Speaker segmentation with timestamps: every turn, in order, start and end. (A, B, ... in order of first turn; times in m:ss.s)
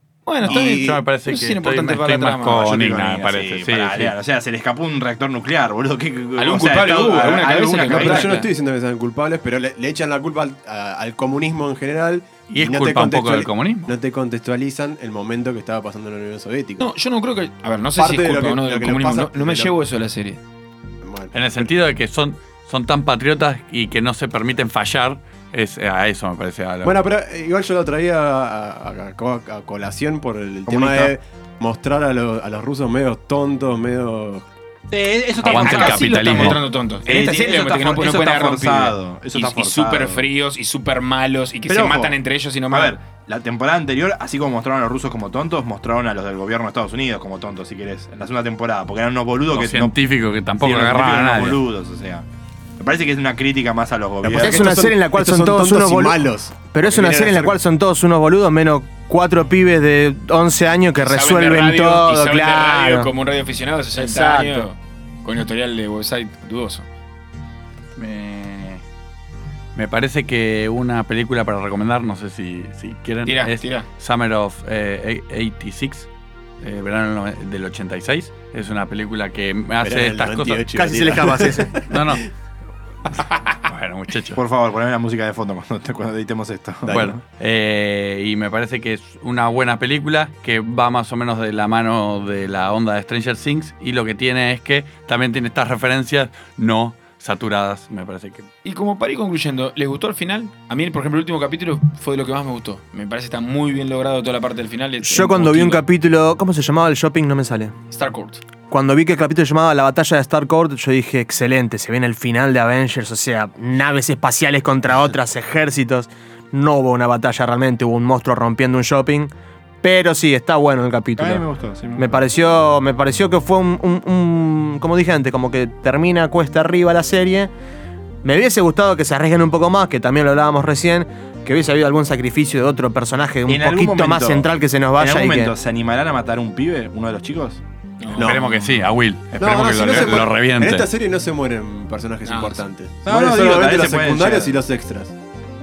0:00.2-0:02.7 A
0:00.4-0:01.0 B
0:00.5-0:04.1 C
0:02.5-0:08.4 D
0:06.4-0:08.5 A
0:07.8-0:16.9 B
0:12.5-0:13.9 C
0:16.8-0:20.4 A
0:18.0-0:19.8 B
0:21.0-0:21.7 B
0:21.3-0:27.0 C
0:26.8-0:34.4 B
0:30.7-0:31.1 D
0:34.9-0:40.2 D
0:35.4-0:36.6 C
0:35.4-0:42.9 A
0:41.7-0:42.2 D
0:42.7-0:49.9 D
0:49.5-0:51.6 C
0:50.6-0:52.2 D
0:52.8-0:54.8 D
0:54.2-0:57.6 B
0:54.4-1:03.1 E
1:01.0-1:06.8 A
1:04.0-1:04.7 E
1:08.0-1:08.8 C
1:09.7-1:16.1 C
1:13.2-1:13.9 A
1:16.6-1:20.8 C
1:19.8-1:22.2 B
1:20.7-1:21.8 E
1:21.8-1:22.3 C
1:23.1-1:24.4 C
1:24.3-1:27.2 D
1:26.8-1:27.1 B
1:26.9-1:38.5 C
1:38.6-1:45.8 A
1:45.0-1:47.7 E
1:47.9-1:48.4 A
1:48.7-1:59.3 E
1:59.8-2:01.4 E
2:01.2-2:02.2 D
2:02.0-2:07.5 E
2:08.2-2:15.5 E
2:13.5-2:17.6 D
2:18.0-2:18.4 A
2:18.1-2:18.5 B
2:18.2-2:20.9 C
2:19.4-2:25.1 B
2:22.2-2:22.6 A
2:23.0-2:24.6 D